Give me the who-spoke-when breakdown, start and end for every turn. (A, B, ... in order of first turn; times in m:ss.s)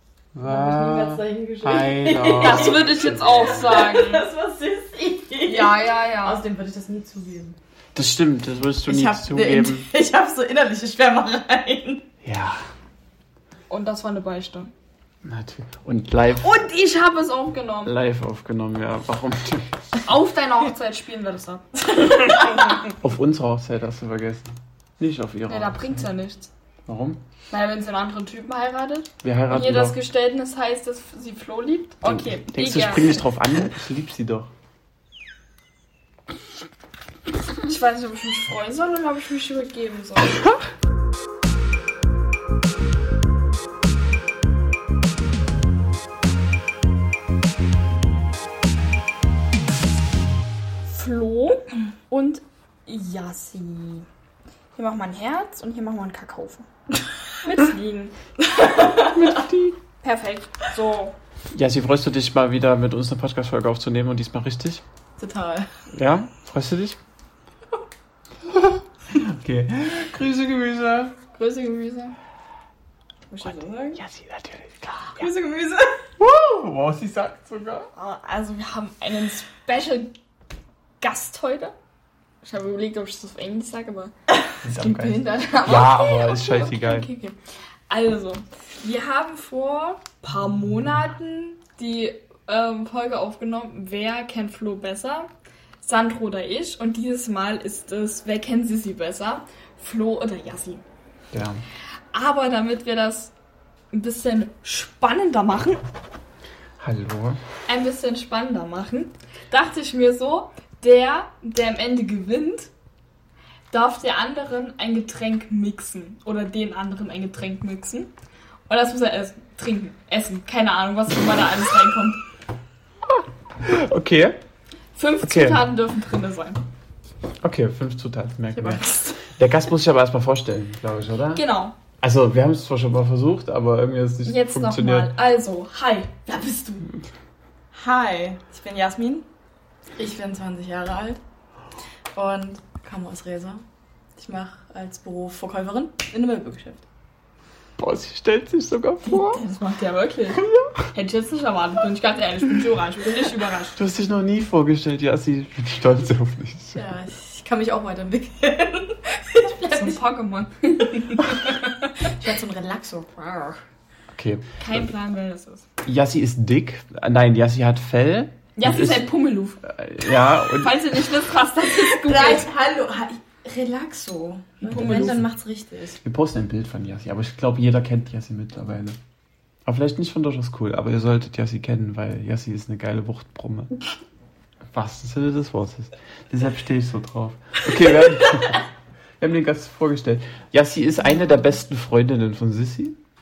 0:00.3-0:03.6 A
0:00.4-0:07.6 B
0:02.4-0:04.2 C
0:05.4-0:06.4 C
0:08.0-0:09.9 A
0:08.9-0:12.1 B
0:12.2-0:12.6 A
0:13.7-0:14.7 C
0:15.2-0:16.6 A
0:16.4-0:17.9 C
0:17.8-0:19.8 A
0:20.0-0:22.6 C
0:22.1-0:22.8 B
0:22.9-0:26.1 A
0:25.5-0:26.5 C
0:26.9-0:27.2 A
0:27.5-0:33.2 C
0:29.2-0:30.0 A
0:32.0-0:34.5 A
0:37.6-0:40.5 C
0:50.9-0:54.1 C
0:54.8-0:56.7 C
0:57.4-0:58.1 C
0:58.4-0:59.3 B
0:59.1-0:59.8 A
1:00.0-1:01.2 C
1:01.5-1:04.8 A
1:05.2-1:05.7 B
1:05.9-1:07.0 A
1:08.4-1:11.2 A
1:11.3-1:12.2 B
1:13.3-1:14.0 B
1:13.4-1:15.2 A
1:15.2-1:16.0 B
1:16.2-1:17.9 A
1:18.0-1:20.2 C
1:21.0-1:21.7 C
1:22.4-1:24.1 C
1:24.5-1:25.8 B
1:24.6-1:27.1 A
1:25.3-1:27.4 C
1:27.9-1:35.3 C
1:35.8-1:40.8 C
1:41.3-1:41.6 A
1:42.1-1:43.3 C
1:43.9-1:45.8 C
1:46.8-1:47.4 A
1:47.7-1:52.7 C
1:53.7-1:58.1 C
1:58.7-2:02.2 C
2:03.1-2:04.4 A
2:05.0-2:06.6 C
2:05.2-2:05.6 A
2:07.4-2:11.4 A
2:08.5-2:09.3 B
2:11.3-2:11.8 C
2:12.0-2:15.1 A
2:14.2-2:16.3 C
2:16.3-2:16.9 B
2:17.7-2:19.3 B
2:20.0-2:21.2 B
2:22.2-2:23.6 B
2:24.2-2:26.8 B
2:27.8-2:29.4 A
2:29.1-2:29.6 B
2:29.5-2:33.8 C
2:30.4-2:30.8 A
2:33.8-2:36.8 A
2:36.8-2:40.0 B
2:39.6-2:42.1 C
2:42.0-2:43.6 B
2:44.2-2:44.9 A
2:44.6-2:45.6 C
2:45.8-2:49.1 A
2:48.6-2:49.6 C
2:49.6-2:50.9 A
2:50.6-2:52.5 C
2:51.6-2:56.0 B
2:54.6-2:55.2 C
2:54.6-2:55.3 A
2:56.0-2:59.0 A
2:59.7-3:03.7 A
3:04.7-3:08.7 A
3:09.2-3:13.0 A